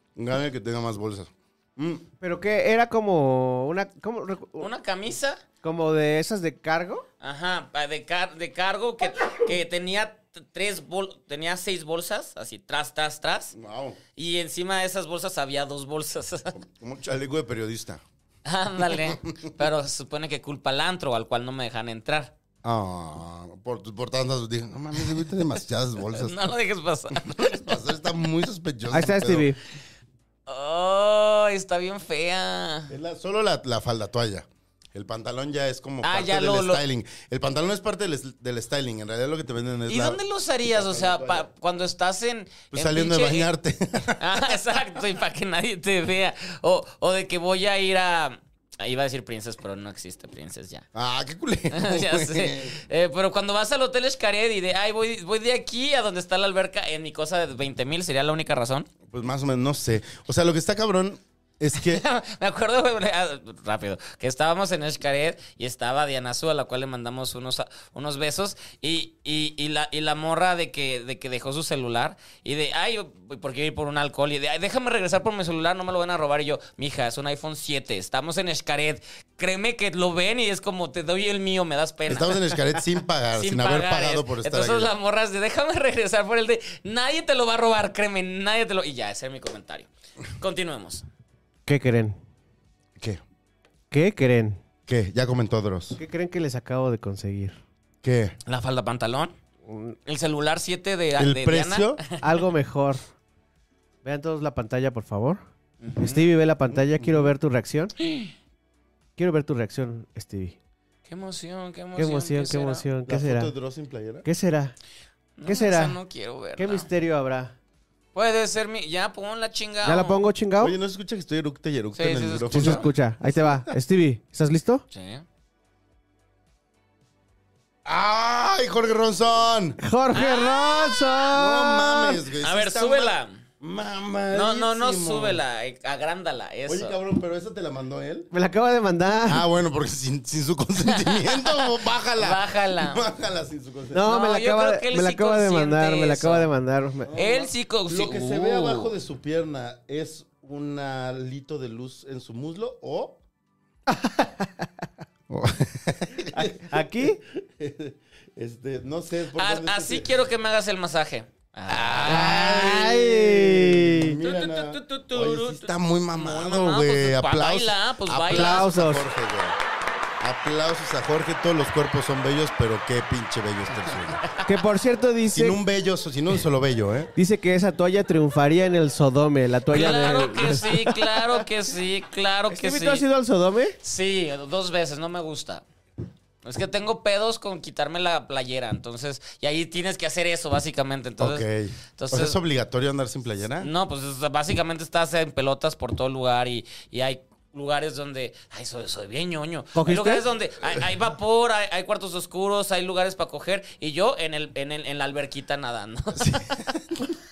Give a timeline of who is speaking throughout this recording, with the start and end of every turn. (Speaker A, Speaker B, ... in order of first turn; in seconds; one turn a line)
Speaker A: 0.2-2.1
Speaker B: 2.2-4.7
Speaker C: 4.6-5.4
Speaker B: 5.6-7.0
Speaker C: 7.2-13.6
Speaker A: 13.5-14.0
Speaker C: 14.2-16.5
Speaker A: 16.5-18.0
Speaker C: 18.4-22.3
Speaker A: 19.0-19.5
Speaker A: 22.6-26.4
Speaker C: 26.1-27.8
Speaker A: 27.1-29.5
Speaker B: 28.9-29.6
Speaker C: 30.5-32.9
Speaker A: 32.9-41.5
Speaker C: 36.0-36.8
Speaker C: 39.9-43.5
Speaker A: 42.7-44.6
Speaker C: 44.2-50.8
Speaker A: 51.0-52.8
Speaker C: 51.7-58.9
Speaker A: 59.0-62.0
Speaker C: 61.7-82.6
Speaker A: 82.1-84.9
Speaker C: 83.3-91.0
Speaker B: 91.7-92.2
Speaker B: 93.9-94.6
Speaker A: 94.9-96.0
Speaker B: 96.0-97.6
Speaker A: 98.0-98.4
Speaker C: 98.5-99.3
Speaker B: 99.7-100.0
Speaker C: 100.0-102.1
Speaker A: 101.2-102.0
Speaker B: 102.2-103.1
Speaker B: 104.0-105.4
Speaker C: 105.8-106.3
Speaker B: 106.0-107.9
Speaker A: 106.7-107.3
Speaker C: 108.0-108.3
Speaker B: 109.2-110.6
Speaker C: 111.0-112.8
Speaker B: 112.0-113.5
Speaker A: 113.1-114.3
Speaker B: 114.2-114.7
Speaker C: 115.4-116.9
Speaker B: 115.5-116.0
Speaker B: 116.6-117.5
Speaker C: 118.1-120.3
Speaker B: 119.8-120.8
Speaker A: 120.6-123.6
Speaker C: 122.0-122.9
Speaker B: 122.5-124.8
Speaker C: 124.9-125.2
Speaker A: 127.8-129.8
Speaker B: 129.8-132.2
Speaker C: 130.1-131.2
Speaker A: 131.3-135.4
Speaker C: 132.4-133.4
Speaker C: 134.3-137.0
Speaker A: 136.7-138.3
Speaker B: 138.3-139.4
Speaker A: 139.3-144.1
Speaker C: 140.8-143.1
Speaker B: 143.9-147.1
Speaker C: 144.1-146.5
Speaker A: 147.1-153.2
Speaker C: 147.1-148.9
Speaker B: 153.9-154.7
Speaker A: 155.3-160.1
Speaker B: 156.3-157.2
Speaker C: 159.3-162.9
Speaker A: 161.7-169.6
Speaker B: 162.1-164.2
Speaker C: 164.2-168.7
Speaker B: 168.3-169.1
Speaker A: 170.2-174.2
Speaker B: 174.4-175.6
Speaker A: 175.3-177.1
Speaker B: 177.2-181.2
Speaker C: 179.7-183.1
Speaker B: 182.5-183.8
Speaker C: 183.8-185.6
Speaker C: 186.4-191.4
Speaker A: 191.2-193.7
Speaker C: 192.0-192.4
Speaker C: 193.6-206.5
Speaker B: 199.7-200.2
Speaker A: 206.1-207.1